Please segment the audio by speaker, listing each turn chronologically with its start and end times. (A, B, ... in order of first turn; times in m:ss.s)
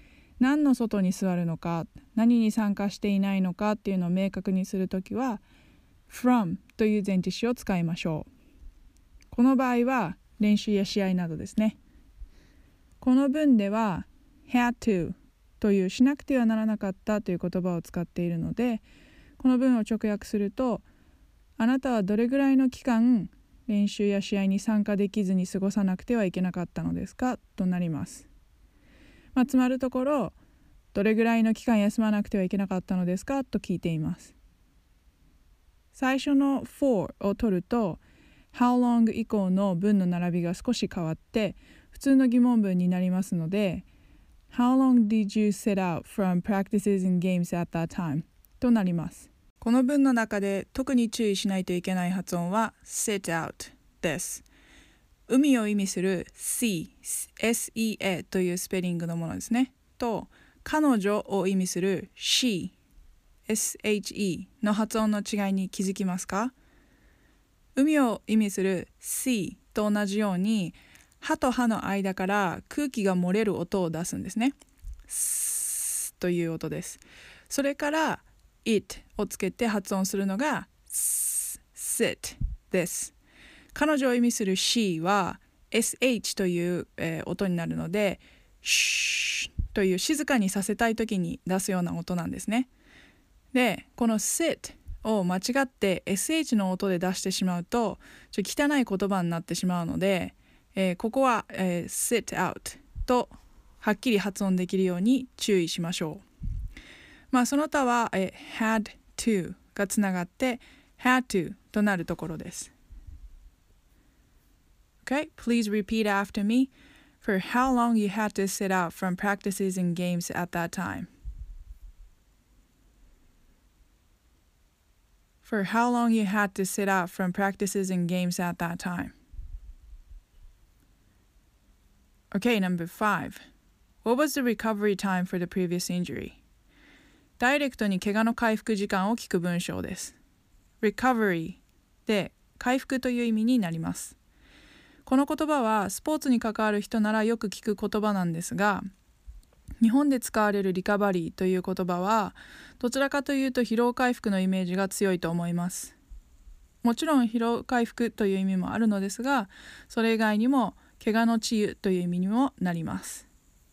0:00.4-0:05.4 A
0:06.1-0:08.3 A
0:09.3-0:11.8 A
0:13.0-0:18.8 A
0:19.4-0:20.9 A
0:21.6-0:28.3 A
0:29.4-0:30.4 A
0:30.9-0:34.3 A
0:35.9-0:38.0 A
0:38.5-0:43.8 A
0:44.5-0:54.4 A
0:55.3-1:02.7 A
1:03.5-1:06.5 A
1:07.8-1:14.6 A
1:15.1-1:23.1 A
1:23.7-1:32.7 A
1:33.5-1:46.2 A
1:47.3-1:52.7 A
1:55.0-2:01.1 A
2:05.4-2:09.1 A
2:12.3-2:13.4 A
2:14.0-2:16.4 A
2:17.4-2:20.2 A
2:20.8-2:24.2 A
2:25.1-2:28.9 A
2:29.8-2:35.9 A
2:36.8-2:43.3 A